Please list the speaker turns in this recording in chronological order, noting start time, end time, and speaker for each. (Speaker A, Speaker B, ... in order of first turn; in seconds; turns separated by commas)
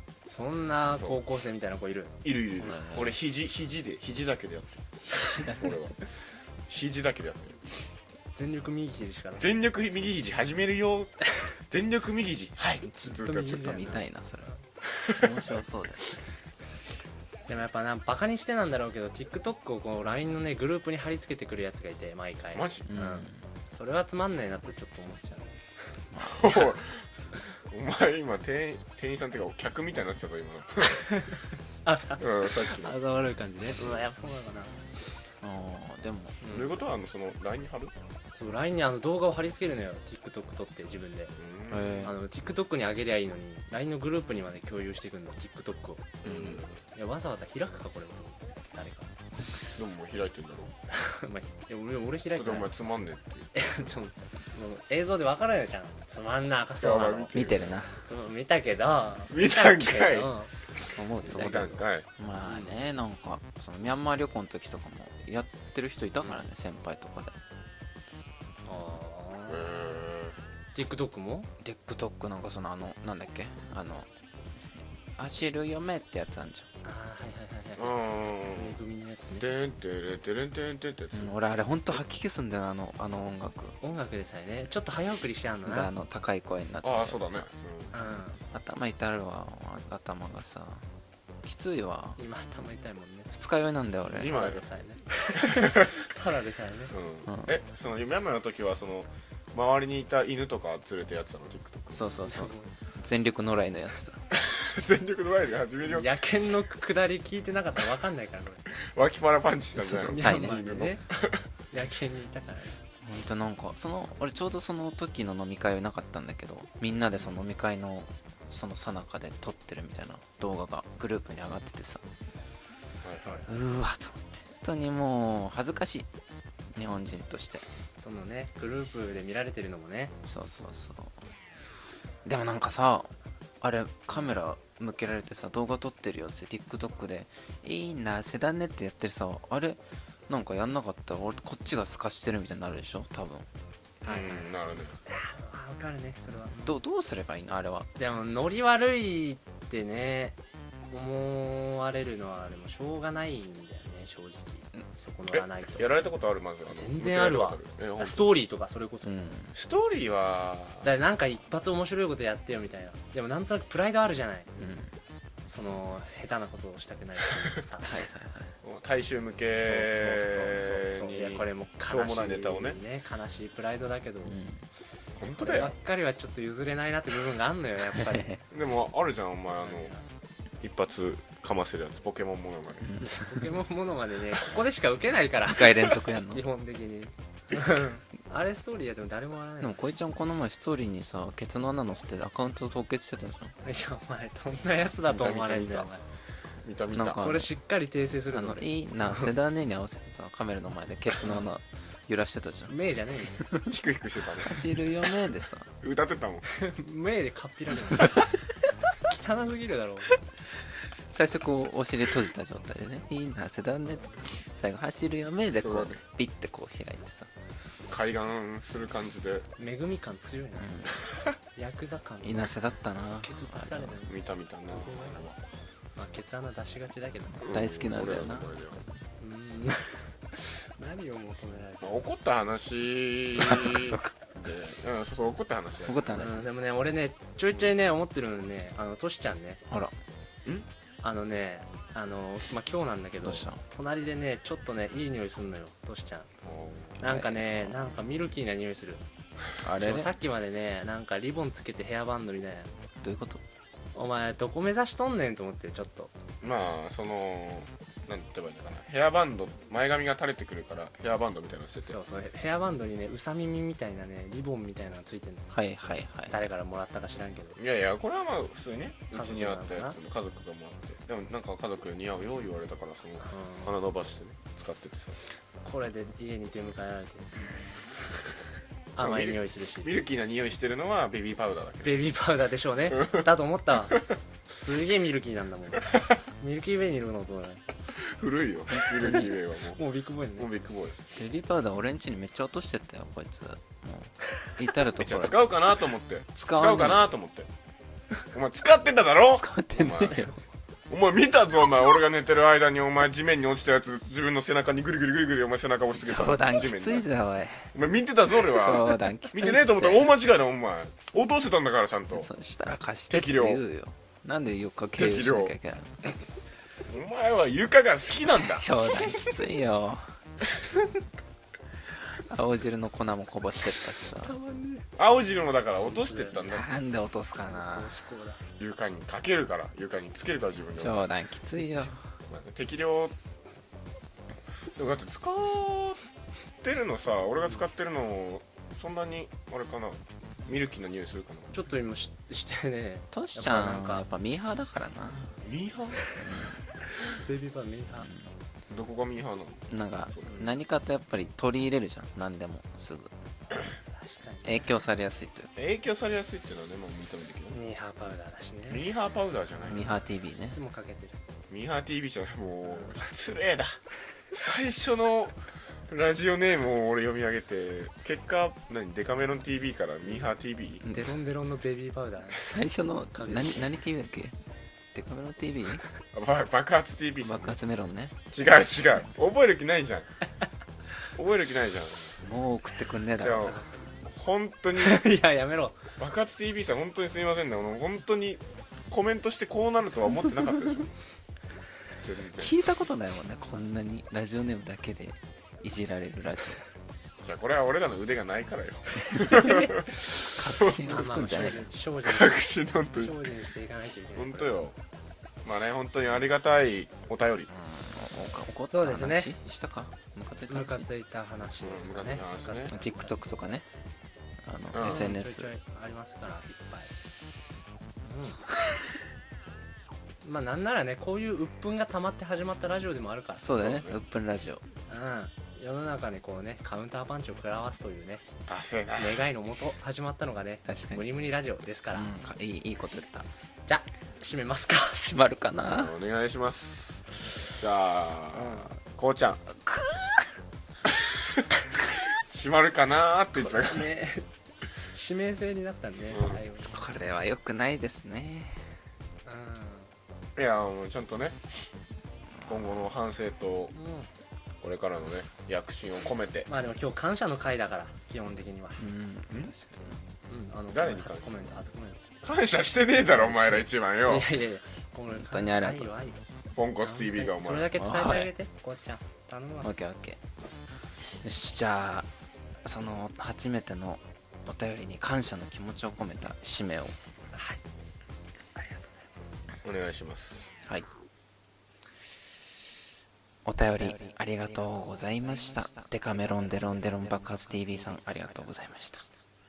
Speaker A: 0.3-2.1, Speaker B: 2.2-6.0, Speaker C: 2.6-3.1, Speaker C: 5.1-5.7, Speaker B: 6.7-7.8, Speaker A: 8.3-9.5, Speaker B: 9.4-14.0, Speaker C: 12.8-14.5, Speaker A: 13.3-14.1, Speaker C: 15.2-16.0, Speaker A: 17.5-25.6, Speaker B: 22.5-22.9, Speaker C: 22.9-23.4, Speaker C: 26.1-26.8, Speaker B: 26.3-31.0, Speaker A: 30.8-34.8, Speaker B: 32.2-33.0, Speaker C: 35.4-36.4, Speaker A: 36.4-36.7, Speaker B: 36.5-37.9, Speaker A: 38.3-41.3, Speaker B: 41.4-42.1, Speaker C: 41.7-42.1, Speaker A: 42.0-49.1, Speaker B: 46.2-46.8, Speaker B: 49.8-50.7, Speaker A: 50.9-52.8, Speaker B: 52.3-53.9, Speaker A: 53.5-60.5, Speaker B: 56.8-57.8, Speaker C: 57.3-58.0, Speaker B: 59.3-60.3, Speaker C: 61.0-67.3, Speaker A: 61.2-61.6, Speaker B: 61.2-62.1, Speaker A: 62.4-62.7, Speaker A: 66.2-66.5, Speaker A: 68.6-70.0, Speaker B: 69.5-70.3, Speaker A: 70.8-71.5, Speaker C: 71.6-74.1, Speaker C: 75.2-76.7, Speaker A: 76.8-79.5, Speaker B: 77.8-78.8, Speaker B: 79.4-81.3, Speaker C: 81.1-83.8, Speaker A: 83.8-85.9, Speaker C: 85.7-87.4, Speaker B: 86.8-87.9, Speaker A: 87.9-88.4, Speaker C: 88.5-90.8, Speaker C: 91.4-92.2, Speaker A: 92.2-93.3, Speaker C: 93.3-94.4, Speaker B: 94.1-94.6, Speaker A: 94.1-96.9, Speaker B: 95.4-96.0, Speaker B: 96.9-102.1, Speaker C: 97.2-97.5, Speaker C: 101.9-104.2, Speaker A: 102.2-102.7, Speaker B: 104.4-106.1, Speaker A: 105.8-108.6, Speaker B: 108.9-111.4, Speaker C: 109.8-110.6, Speaker A: 109.9-111.0, Speaker A: 111.7-112.8, Speaker C: 113.0-122.0, Speaker B: 123.0-123.4, Speaker C: 123.5-126.1, Speaker C: 126.8-127.6, Speaker A: 128.0-130.1, Speaker C: 130.2-131.2, Speaker C: 132.2-143.5, Speaker B: 144.0-145.0, Speaker A: 144.0-144.5, Speaker A: 145.1-146.8, Speaker C: 146.7-147.9, Speaker A: 147.9-150.4, Speaker A: 150.9-155.9, Speaker B: 155.3-158.3, Speaker A: 156.7-159.2, Speaker C: 159.0-159.5, Speaker B: 159.5-160.9, Speaker A: 160.8-164.7, Speaker C: 164.6-164.9, Speaker A: 165.5-168.0, Speaker C: 167.8-168.6, Speaker B: 168.6-172.8, Speaker A: 169.5-174.4, Speaker C: 174.2-174.6, Speaker B: 175.2-175.8, Speaker A: 175.3-178.4, Speaker C: 177.9-178.4, Speaker B: 178.5-179.9, Speaker A: 179.6-180.1, Speaker B: 180.6-182.9, Speaker C: 182.8-183.6, Speaker A: 183.0-189.8, Speaker C: 185.5-186.4, Speaker C: 189.6-193.5, Speaker A: 193.6-196.0, Speaker B: 195.0-195.9, Speaker B: 196.6-197.3, Speaker C: 196.9-197.5, Speaker A: 197.1-199.3, Speaker C: 198.3-202.8, Speaker A: 202.7-203.5, Speaker B: 203.6-204.7, Speaker C: 204.4-205.7, Speaker B: 205.8-206.4, Speaker A: 206.5-208.4, Speaker C: 207.9-208.2, Speaker A: 209.0-210.1, Speaker C: 211.1-217.3, Speaker B: 215.5-216.0, Speaker B: 217.9-219.5, Speaker A: 219.6-221.0, Speaker C: 220.6-221.0, Speaker A: 221.5-222.5, Speaker C: 222.2-223.9, Speaker A: 223.2-225.2, Speaker B: 224.0-225.4, Speaker A: 225.9-227.4, Speaker B: 227.4-228.8, Speaker C: 227.5-228.6, Speaker A: 229.2-232.0, Speaker B: 231.8-236.1, Speaker C: 233.4-234.1, Speaker C: 235.8-236.5, Speaker A: 236.1-239.6, Speaker A: 241.0-246.3, Speaker C: 243.2-243.6, Speaker B: 246.4-247.0, Speaker A: 247.0-249.0, Speaker C: 247.0-247.9, Speaker C: 249.6-250.1, Speaker A: 249.8-252.7, Speaker C: 253.0-253.4, Speaker A: 253.9-256.1, Speaker B: 256.4-262.0, Speaker A: 261.9-265.5, Speaker C: 265.5-266.4, Speaker A: 266.1-267.6, Speaker B: 267.6-275.2, Speaker A: 269.1-270.0, Speaker A: 273.2-273.7, Speaker A: 275.6-277.4, Speaker A: 278.9-279.9, Speaker B: 279.0-282.0, Speaker A: 281.8-287.6, Speaker B: 282.9-283.2, Speaker B: 288.1-289.8, Speaker C: 288.7-289.3, Speaker A: 289.8-290.5, Speaker B: 290.4-291.0, Speaker C: 291.1-295.4, Speaker B: 295.0-297.5, Speaker C: 296.4-297.1, Speaker B: 298.3-300.3, Speaker C: 299.3-300.3, Speaker B: 300.9-307.1, Speaker C: 305.9-307.7, Speaker B: 307.7-312.3, Speaker C: 308.5-310.1, Speaker C: 312.1-316.0, Speaker B: 313.1-313.6, Speaker B: 315.0-315.5, Speaker B: 316.8-318.6, Speaker C: 318.5-320.0, Speaker A: 319.0-319.3, Speaker C: 322.0-324.3, Speaker A: 324.2-325.0, Speaker B: 325.0-326.7, Speaker A: 325.8-326.4, Speaker C: 326.4-327.9, Speaker A: 327.5-328.4, Speaker B: 328.6-331.1, Speaker C: 330.8-332.0, Speaker B: 332.3-333.1, Speaker B: 334.8-336.0, Speaker B: 336.6-341.5, Speaker A: 341.5-344.1, Speaker C: 343.1-345.3, Speaker B: 345.4-346.0, Speaker C: 346.1-346.6, Speaker A: 347.1-348.1, Speaker C: 348.0-348.3, Speaker B: 348.7-350.4, Speaker C: 349.7-353.1, Speaker A: 350.3-350.5, Speaker A: 353.8-354.7, Speaker C: 354.4-355.5, Speaker B: 355.5-357.6, Speaker A: 357.5-358.9, Speaker B: 358.7-359.9, Speaker C: 359.7-360.6, Speaker A: 359.7-360.0, Speaker A: 360.5-361.2, Speaker B: 361.5-363.8, Speaker B: 364.3-370.8, Speaker C: 370.8-371.2, Speaker A: 370.9-372.5, Speaker C: 372.4-374.4, Speaker A: 373.1-373.7, Speaker C: 374.9-375.8, Speaker B: 376.1-377.6, Speaker C: 377.2-378.1, Speaker B: 378.3-380.1, Speaker B: 381.1-382.1, Speaker C: 382.2-383.6, Speaker B: 383.2-385.0, Speaker A: 383.3-383.9, Speaker A: 384.8-385.9, Speaker B: 386.0-390.9, Speaker B: 392.0-392.6, Speaker C: 392.4-396.6, Speaker B: 397.2-399.9, Speaker C: 399.1-399.7, Speaker C: 400.2-401.7, Speaker B: 400.6-403.2, Speaker A: 400.9-404.5, Speaker B: 404.1-404.8, Speaker B: 405.4-407.5, Speaker C: 407.5-410.9, Speaker A: 408.7-409.3, Speaker A: 410.5-413.2, Speaker B: 411.6-412.8, Speaker C: 412.7-413.6, Speaker C: 414.4-415.5, Speaker B: 414.7-415.1, Speaker A: 414.8-416.9, Speaker A: 418.0-418.4, Speaker A: 420.2-423.5, Speaker C: 423.4-424.6, Speaker B: 423.5-424.0, Speaker A: 424.9-428.2, Speaker B: 428.5-429.3, Speaker A: 429.0-432.1, Speaker C: 430.6-431.0, Speaker C: 431.9-433.3, Speaker A: 433.6-435.0, Speaker C: 434.9-435.9, Speaker B: 435.6-437.0, Speaker B: 437.6-439.4, Speaker A: 438.4-438.7, Speaker C: 439.7-440.0, Speaker B: 442.3-443.9, Speaker A: 443.3-444.3, Speaker A: 444.9-446.9, Speaker B: 446.1-446.4, Speaker C: 446.6-448.6, Speaker A: 449.2-449.9, Speaker B: 450.4-451.4, Speaker B: 452.5-453.7, Speaker A: 453.7-454.1, Speaker B: 454.6-456.5, Speaker A: 456.5-458.8, Speaker C: 458.8-460.0, Speaker A: 460.3-462.0, Speaker B: 460.7-461.3, Speaker B: 462.2-464.3, Speaker A: 463.1-466.2, Speaker C: 465.1-466.0, Speaker B: 466.5-467.8, Speaker A: 466.8-469.7, Speaker C: 467.8-468.3, Speaker C: 469.6-470.2, Speaker C: 471.2-472.1, Speaker C: 472.6-477.0, Speaker A: 477.3-477.6, Speaker A: 478.5-479.3, Speaker B: 479.6-480.5, Speaker C: 483.4-489.0